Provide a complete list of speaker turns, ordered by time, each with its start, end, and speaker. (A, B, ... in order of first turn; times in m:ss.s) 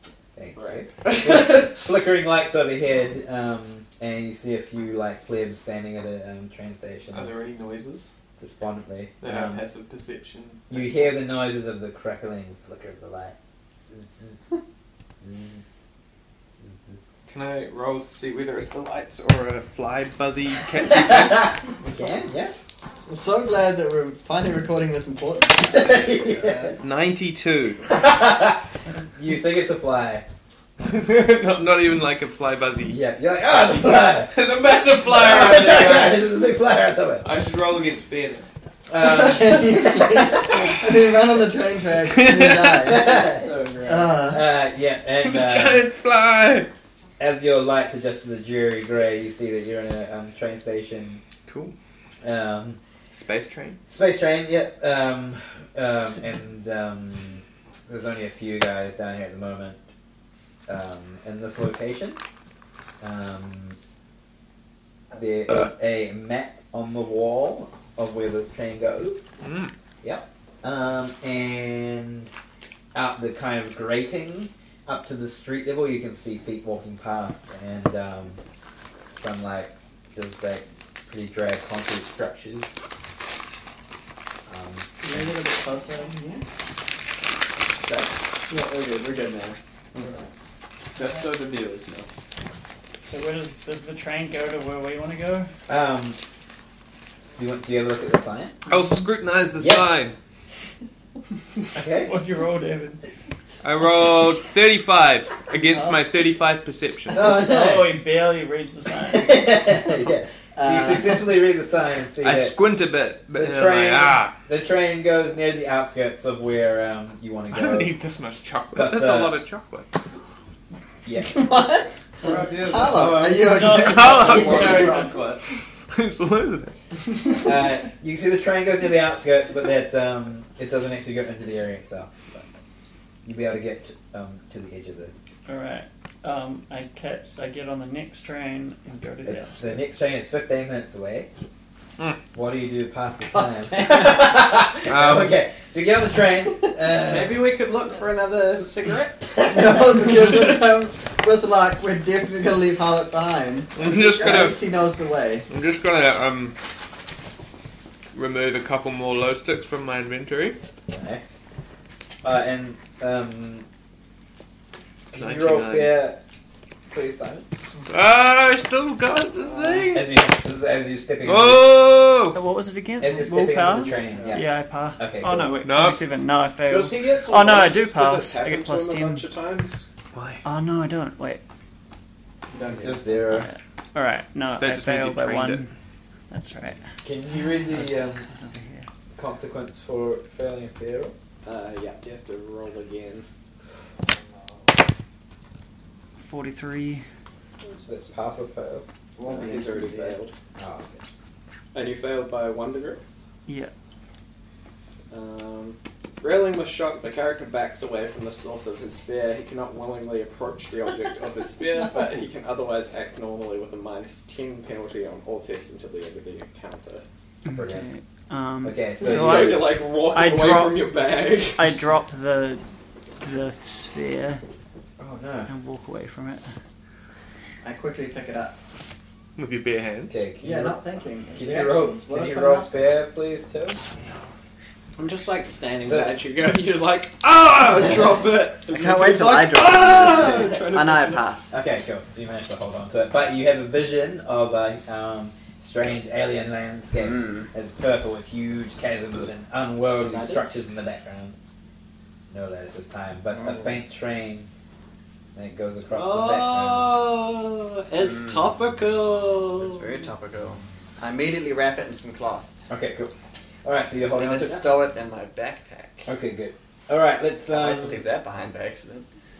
0:00.4-0:07.3 A
0:00.6-0:01.7 B
0:07.1-0:08.1 C
0:08.4-0:09.6 A
0:09.2-0:11.1 C
0:10.7-0:14.4 A
0:15.2-0:15.6 A
0:16.6-0:17.0 A
0:17.3-0:21.5 C
0:20.9-0:22.5 A
0:23.0-0:26.8 D
0:25.7-0:26.8 A
0:26.8-0:27.9 C
0:27.9-0:28.6 A
0:29.1-0:30.2 A
0:30.8-0:36.3 C
0:32.8-0:34.4 A
0:35.0-0:37.2 A
0:37.2-0:38.5 C
0:38.9-0:40.6 A
0:39.0-0:44.5 D
0:42.0-0:42.9 C
0:42.8-0:43.5 A
0:43.0-0:44.2 B
0:44.2-0:45.9 A
0:45.2-0:46.7 C
0:47.2-0:51.2 A
0:51.4-0:51.7 C
0:52.2-0:52.8 A
0:53.1-0:53.8 C
0:53.9-0:59.8 A
1:00.7-1:02.2 A
1:03.0-1:03.8 A
1:05.1-1:09.2 A
1:09.4-1:09.7 C
1:10.0-1:12.3 A
1:12.9-1:18.4 A
1:19.1-1:22.7 A
1:24.5-1:25.3 A
1:25.0-1:26.4 D
1:28.5-1:29.6 B
1:30.9-1:32.1 C
1:31.0-1:31.6 B
1:33.0-1:35.5 E
1:35.7-1:36.2 A
1:37.4-1:38.6 A
1:38.7-1:40.2 C
1:39.6-1:39.9 A
1:41.7-1:42.1 A
1:41.9-1:43.0 E
1:43.6-1:47.3 C
1:45.7-1:46.0 E
1:47.1-1:48.0 A
1:47.3-1:49.6 E
1:49.1-1:52.6 A
1:50.6-1:51.3 D
1:52.2-1:54.4 C
1:53.3-1:58.0 A
1:57.5-1:59.9 C
1:58.7-1:59.4 A
2:01.0-2:01.5 A
2:01.3-2:05.1 D
2:02.2-2:03.6 B
2:02.7-2:05.0 C
2:03.4-2:05.1 E
2:04.2-2:05.4 B
2:05.9-2:06.7 C
2:07.4-2:12.4 A
2:13.2-2:15.1 A
2:15.4-2:19.9 E
2:19.2-2:21.3 A
2:22.3-2:27.4 A
2:23.4-2:24.2 D
2:24.8-2:25.4 C
2:27.0-2:29.7 B
2:29.3-2:35.5 D
2:33.7-2:34.6 C
2:35.5-2:36.6 C
2:38.1-2:40.6 C
2:40.9-2:41.3 A
2:42.2-2:43.6 A
2:45.1-2:46.2 A
2:45.1-2:46.0 C
2:46.9-2:47.5 A
2:47.9-2:50.1 C
2:49.4-2:49.9 D
2:49.9-2:51.9 A
2:51.2-2:52.4 C
2:52.3-2:59.3 E
2:53.0-2:55.5 A
2:53.9-2:54.4 D
2:55.6-2:56.1 C
2:56.7-2:59.9 B
3:00.1-3:00.4 C
3:00.4-3:01.4 E
3:02.5-3:03.2 D
3:02.6-3:03.5 A
3:03.2-3:05.7 E
3:04.6-3:05.6 C
3:06.3-3:06.8 E
3:07.0-3:08.2 A
3:07.4-3:08.9 E
3:09.1-3:11.1 A
3:11.4-3:13.2 B
3:14.1-3:14.6 D
3:16.2-3:17.0 E
3:17.6-3:17.9 B
3:17.8-3:18.8 A
3:19.2-3:20.2 D
3:19.2-3:20.3 B
3:20.6-3:21.1 A
3:21.7-3:23.0 B
3:23.4-3:23.7 E
3:25.1-3:37.0 B
3:37.4-3:40.9 E
3:37.5-3:37.9 A
3:38.6-3:39.7 A
3:39.0-3:41.6 B
3:41.5-3:42.6 E
3:43.2-3:44.4 E
3:45.0-3:45.5 A
3:45.5-3:46.5 E
3:47.6-3:48.6 D
3:49.4-3:50.2 C
3:50.1-3:50.8 A
3:50.4-3:53.0 D
3:51.3-3:53.8 A
3:55.0-4:01.1 B
3:55.8-3:56.2 A
3:58.6-4:01.5 D
3:59.8-4:00.2 C
4:00.1-4:00.6 A
4:01.5-4:11.4 A
4:07.0-4:07.5 D
4:10.1-4:10.6 B
4:12.3-4:14.5 A
4:13.3-4:13.7 D
4:15.3-4:17.0 A
4:15.9-4:20.0 B
4:18.0-4:18.3 D
4:19.5-4:22.5 D
4:22.7-4:24.7 A
4:24.1-4:26.1 D
4:26.0-4:28.0 A
4:27.5-4:29.0 D